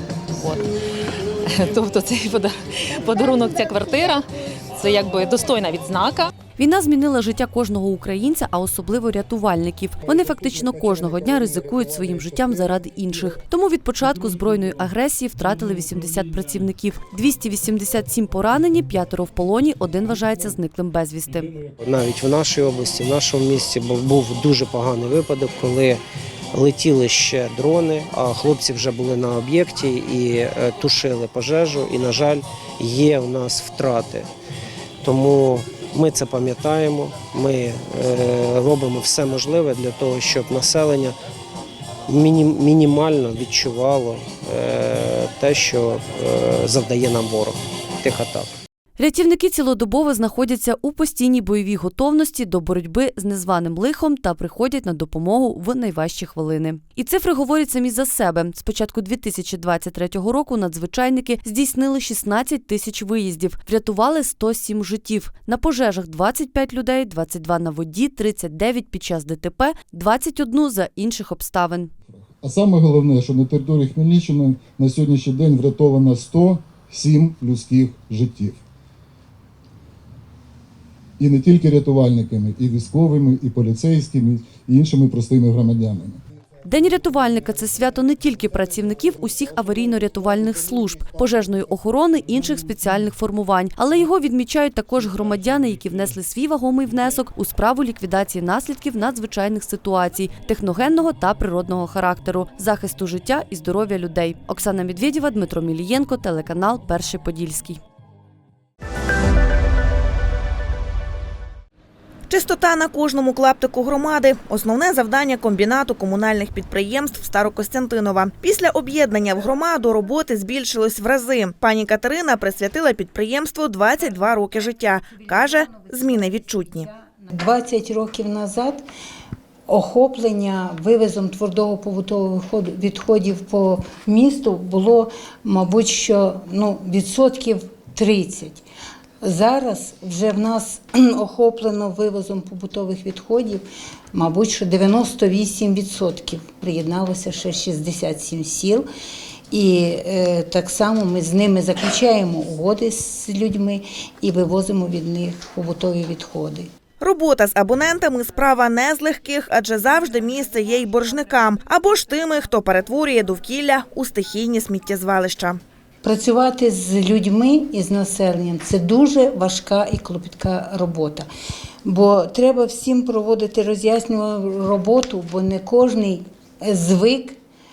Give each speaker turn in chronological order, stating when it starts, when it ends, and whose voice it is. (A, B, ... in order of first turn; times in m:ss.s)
0:01.6-0:04.2 A
0:04.8-0:06.3 A
0:06.6-0:21.5 B
0:21.8-0:26.0 C
0:26.5-0:34.3 C
0:35.0-0:41.2 C
0:42.1-0:48.5 C
0:49.0-1:11.9 B
1:12.1-1:18.6 D
1:21.2-1:26.2 D
1:26.6-1:47.8 B
1:52.3-2:06.9 E
2:05.1-2:08.8 F
2:09.7-2:18.6 F
2:19.2-2:28.8 F
2:29.5-2:36.7 F
2:37.0-2:45.6 E
2:46.0-2:51.2 F
2:51.8-2:57.4 F